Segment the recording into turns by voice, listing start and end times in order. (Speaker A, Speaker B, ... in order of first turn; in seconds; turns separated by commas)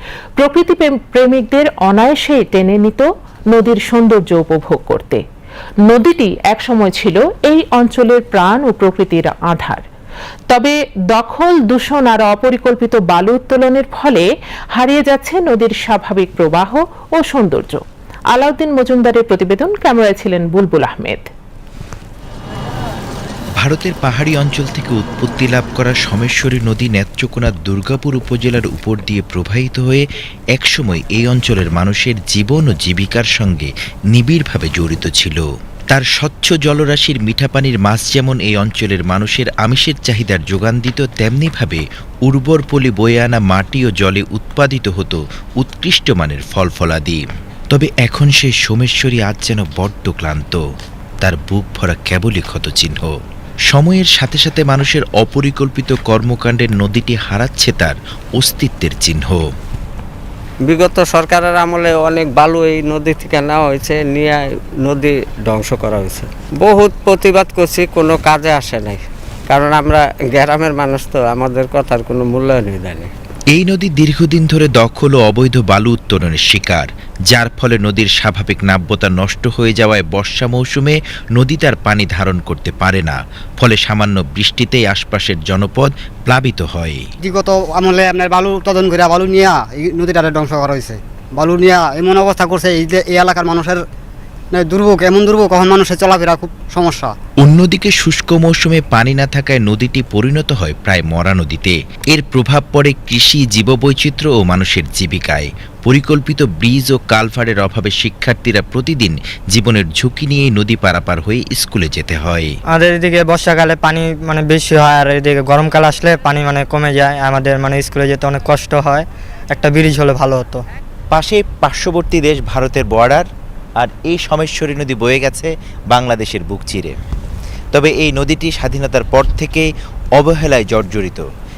Speaker A: 0.4-5.2, Speaker A: 5.9-9.8, Speaker A: 10.5-17.8, Speaker A: 18.3-21.3, Speaker B: 23.6-50.6, Speaker B: 51.2-53.1, Speaker B: 53.7-59.5, Speaker C: 60.7-73.1, Speaker B: 73.5-87.0, Speaker D: 87.2-93.8, Speaker D: 94.5-97.2, Speaker B: 97.4-112.5, Speaker E: 112.7-120.7, Speaker B: 121.1-123.2, Speaker B: 123.8-127.0, Speaker B: 127.7-131.2